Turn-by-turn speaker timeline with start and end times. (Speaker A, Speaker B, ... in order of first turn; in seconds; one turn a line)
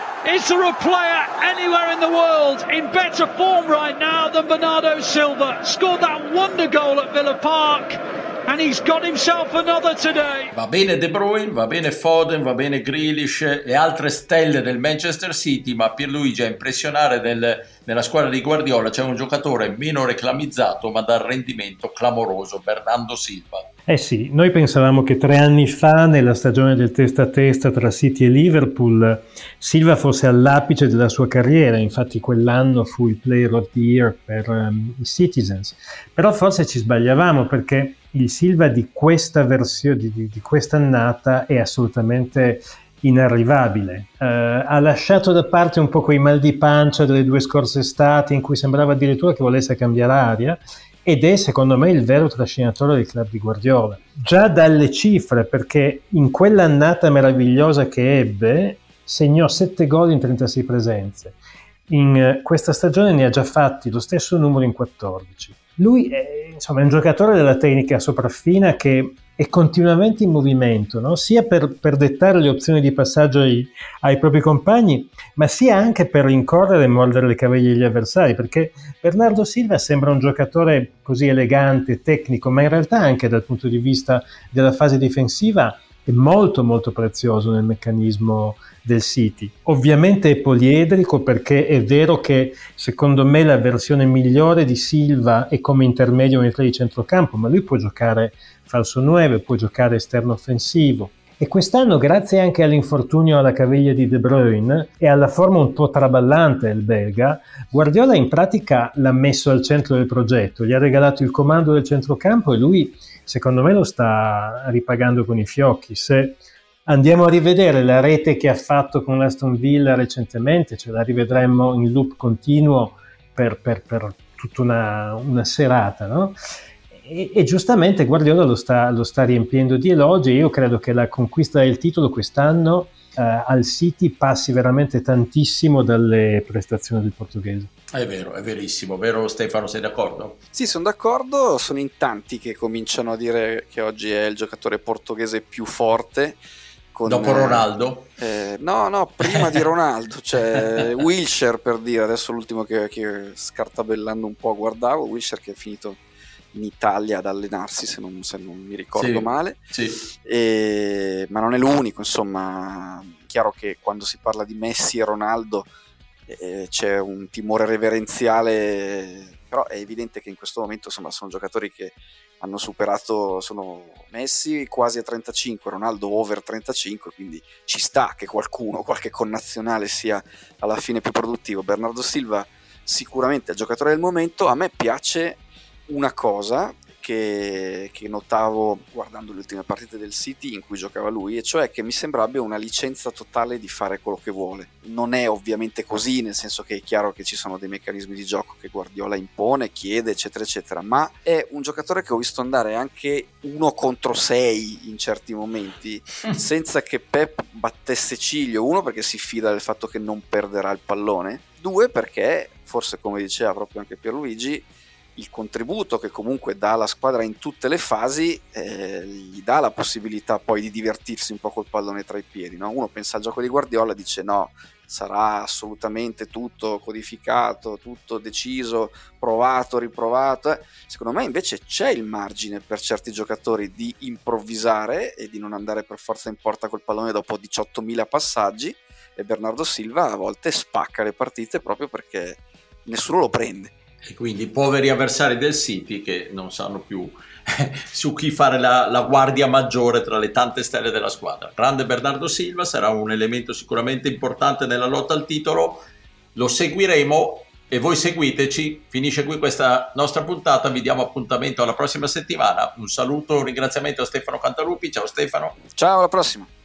Speaker A: 0.2-10.5
Speaker B: 10.5-23.7
Speaker C: 23.9-61.4
Speaker C: 61.9-126.3
Speaker C: 126.9-137.7
Speaker B: 137.9-140.4
Speaker D: 140.5-146.4
Speaker D: 146.9-147.7
Speaker B: 147.1-148.1
Speaker D: 148.2-156.0
Speaker B: 149.3-149.6
Speaker D: 156.5-159.6
Speaker B: 158.9-160.0
Speaker D: 160.2-165.7
Speaker D: 166.3-243.7
Speaker B: 244.0-255.8
Speaker B: 256.3-265.6
Speaker D: 265.7-266.5